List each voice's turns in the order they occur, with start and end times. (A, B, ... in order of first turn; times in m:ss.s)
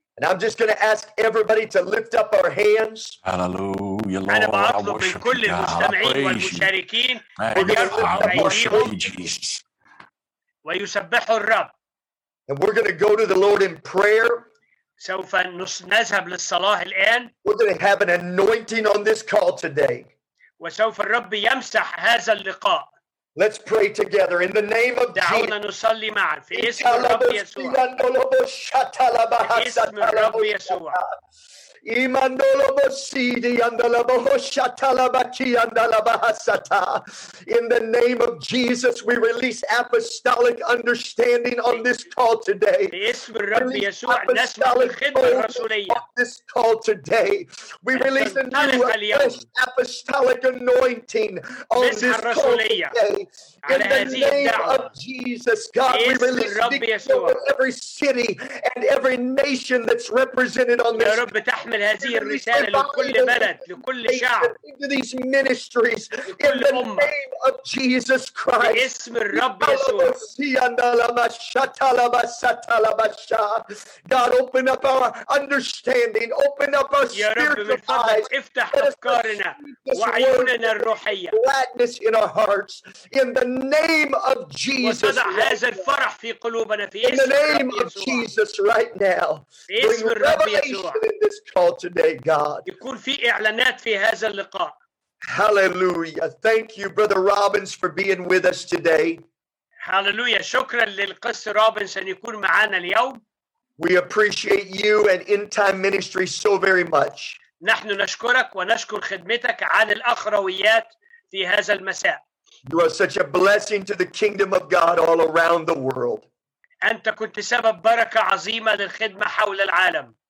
0:00.2-0:03.2 A
0:03.2-0:06.7 B
0:04.3-0:09.0 C
0:07.4-0:09.6 B
0:07.5-0:09.1 A
0:10.6-0:11.7 C
0:12.5-0:14.5 A
0:15.0-0:17.3 C
0:17.4-0:20.1 A
0:20.6-0:22.9 C
0:23.4-0:25.6 A
0:25.2-0:27.8 C
0:26.5-0:31.2 A
0:29.4-0:31.0 C
0:31.8-0:43.0 A
0:42.9-0:46.0 C
0:43.5-1:01.3 A
0:47.9-0:49.4 C
0:51.8-0:53.0 C
0:53.6-0:54.9 C
0:55.9-0:57.4 C
1:00.9-1:04.6 C
1:02.0-1:25.6 A
1:06.3-1:07.1 C
1:08.6-1:10.2 C
1:17.1-1:21.4 C
1:24.8-1:28.3 C
1:27.0-1:32.6 A
1:29.7-1:31.0 C
1:32.6-1:34.8 C
1:35.2-1:39.2 A
1:39.8-1:43.2 C
1:43.8-1:47.4 A
1:47.6-1:52.2 C
1:52.7-1:56.3 A
1:56.8-2:00.1 C